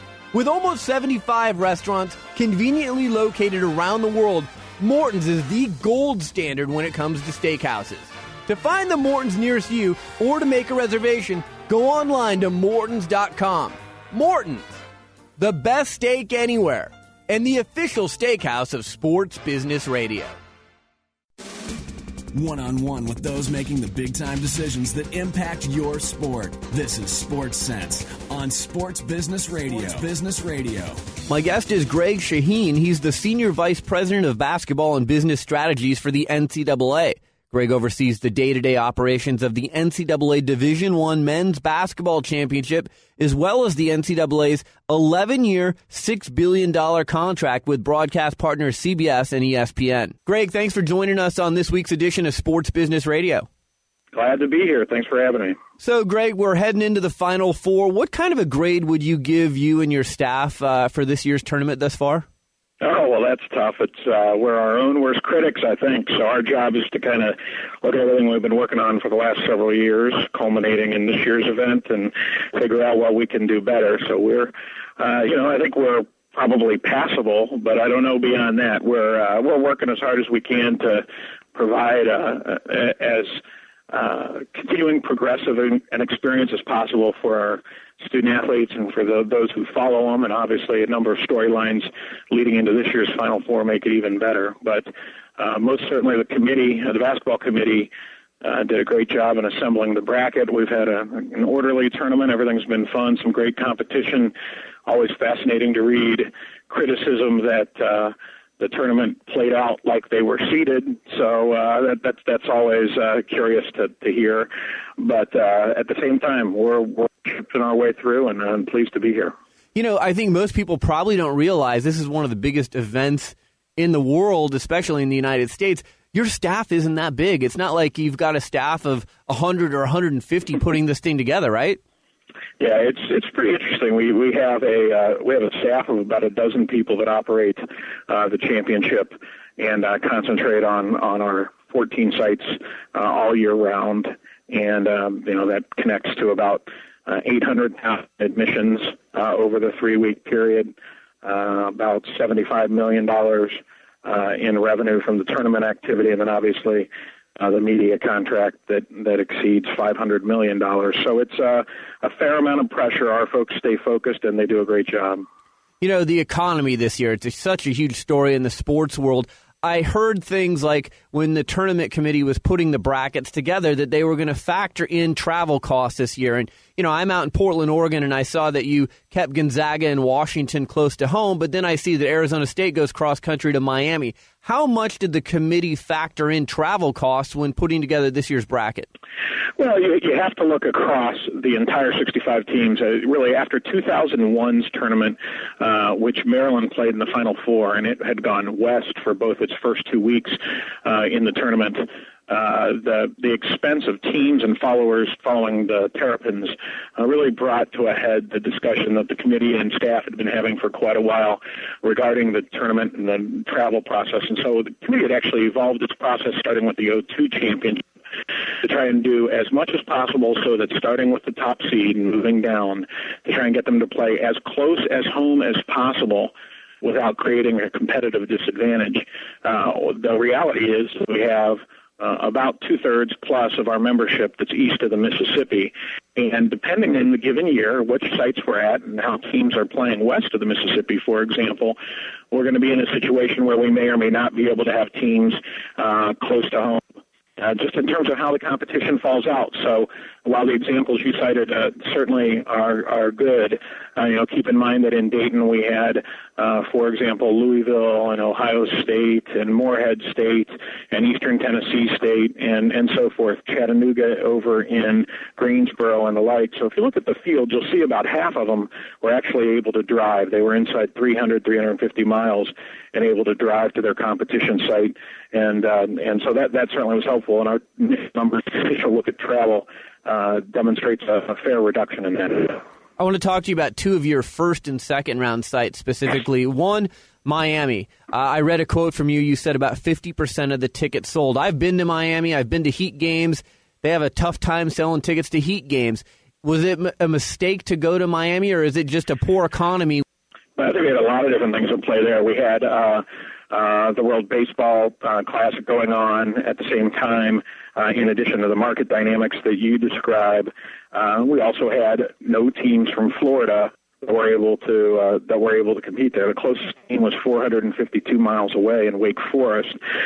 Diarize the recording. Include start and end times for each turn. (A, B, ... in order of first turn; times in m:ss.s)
0:00.3-0:14.8 A
0:15.4-0:20.4 A
0:22.3-0:31.0 B
0:31.3-0:53.5 A
0:54.1-0:55.6 C
0:55.8-1:02.3 A
1:02.8-1:23.4 C
1:23.9-1:37.9 C
1:38.4-1:44.3 C
1:44.9-1:59.3 C
1:59.8-2:11.8 A
2:12.6-2:45.3 C
2:45.8-3:08.9 A
3:09.6-3:37.8 C
3:38.6-4:01.8 C
4:02.3-4:06.8 C
4:07.4-4:42.6 C
4:43.0-5:00.0 A
5:00.6-5:19.8 C